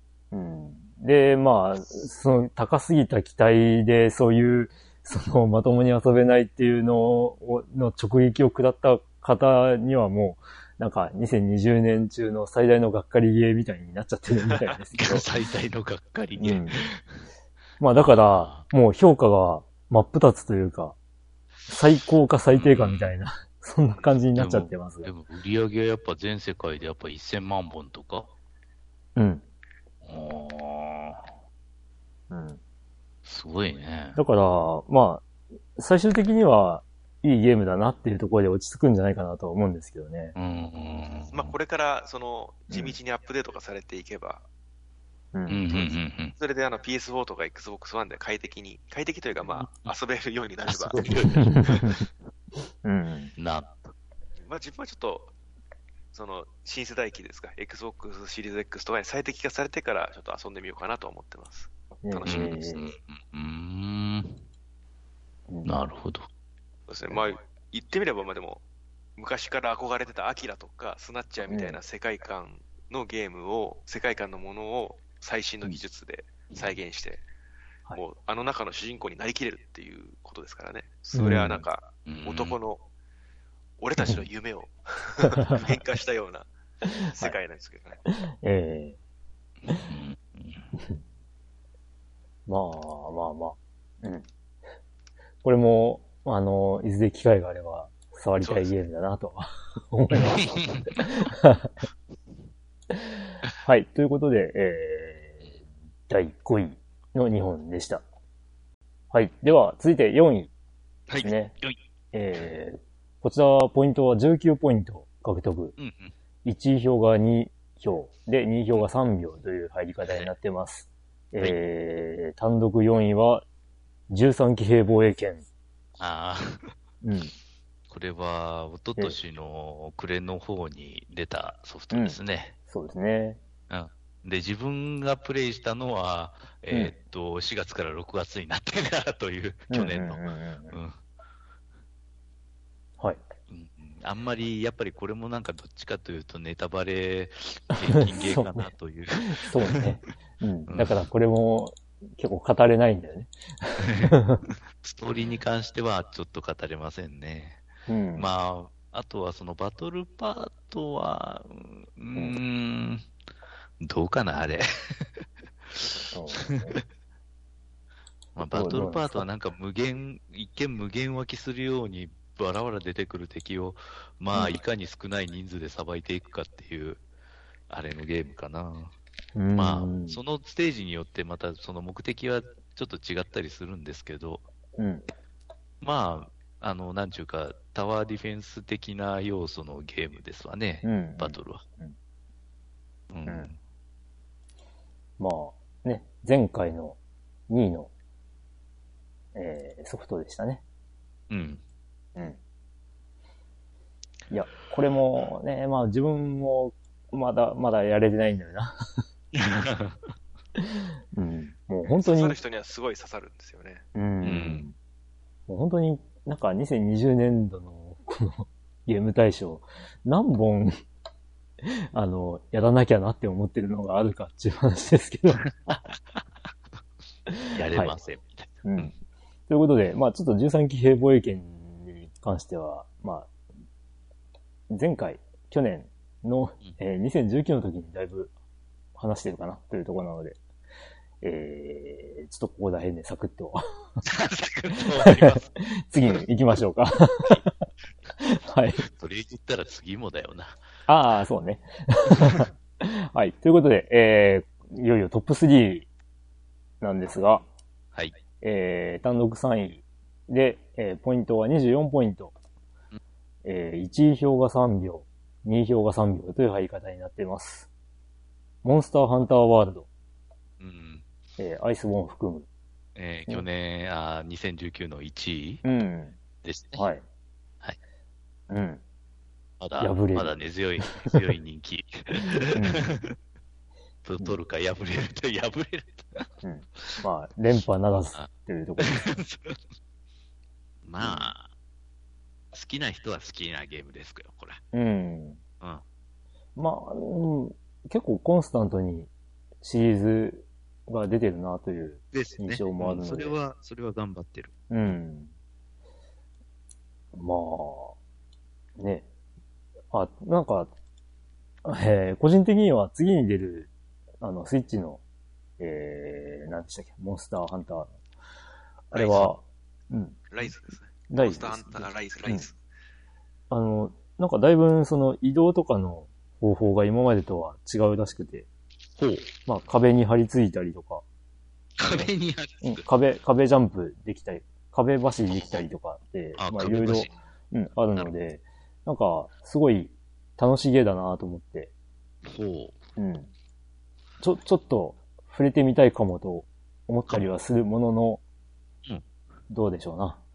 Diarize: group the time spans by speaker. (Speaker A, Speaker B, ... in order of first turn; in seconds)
Speaker A: 0.3-15.2, 16.4-16.8, 17.8-21.0, 21.7-25.1, 29.2-29.4, 32.3-32.6, 34.2-40.3, 45.3-45.7, 51.5-52.0, 52.8-53.3, 62.0-62.9, 65.5-65.8, 71.5-71.8, 81.2-81.6, 88.2-89.0, 92.5-94.3, 95.4-101.8, 103.7-105.5, 106.1-108.0, 109.1-110.5, 111.2-111.5, 112.1-115.8, 116.4-123.5, 124.1-125.4, 127.0-127.3, 131.9-133.4, 139.7-140.8, 147.8-148.7, 149.3-154.4, 157.9-158.3, 166.1-166.7, 168.5-169.3, 179.3-180.2, 184.8-185.1, 190.8-191.9, 195.2-197.0, 197.5-197.9, 199.3-200.6, 204.3-208.8, 210.6-212.4, 213.9-214.8, 215.5-220.8, 221.6-225.5, 227.3-228.0, 228.7-228.9, 229.5-233.3, 234.7-238.3, 239.0-240.4, 241.2-243.6, 244.9-247.5, 248.2-248.8, 250.9-255.9, 256.8-257.5, 258.4-262.3, 263.4-267.7, 268.6-269.9, 271.4-272.5, 275.6-276.2, 276.8-277.0, 278.5-278.8, 279.8-280.4, 282.6-282.9, 286.4-289.1, 291.0-291.3, 294.7-295.4, 296.6-299.1, 299.6-303.4, 304.7-305.3, 307.1-307.9, 308.8-309.1, 309.9-310.7, 311.6-313.7, 314.2-315.0, 315.6-317.9, 318.9-320.2, 321.1-322.5, 323.5-328.5, 329.4-331.0, 331.8-332.1, 332.6-341.7, 343.0-343.3, 344.2-348.2, 349.5-350.2
Speaker B: 15.0-17.2, 17.9-18.7, 22.6-23.1, 24.4-28.3, 30.1-31.2, 33.2-34.2, 40.4-41.5, 45.5-46.3, 49.6-49.9, 50.6-52.0, 53.4-53.9, 62.3-64.4, 65.7-66.3, 82.1-82.6, 89.7-90.7, 100.3-101.1, 111.1-111.8, 115.8-116.1, 126.0-126.7, 127.9-132.6, 133.7-141.0, 143.5-149.4, 150.7-151.1, 153.8-154.2, 154.8-157.6, 158.2-163.1, 163.8-165.2, 166.4-166.8, 168.4-177.0, 177.7-178.9, 179.6-184.4, 185.8-191.6, 193.1-193.6, 201.3-201.6, 209.3-209.9, 214.2-214.6, 225.4-226.2, 227.5-228.9, 244.1-245.4, 248.8-250.6, 270.6-271.1, 273.0-275.6, 276.4-276.8, 279.6-283.1, 284.1-286.3, 288.1-289.6, 290.8-291.5, 292.5-294.6, 302.1-304.5, 329.0-329.3, 331.8-332.8, 335.3-335.6, 336.4-337.1, 342.2-342.8
Speaker C: 23.9-24.2, 41.3-44.4, 45.7-51.7, 54.4-55.3, 56.1-62.9, 66.9-68.6, 69.2-77.2, 77.9-82.8, 83.8-88.0, 98.4-98.8, 212.0-213.8, 318.9-319.3, 320.3-322.6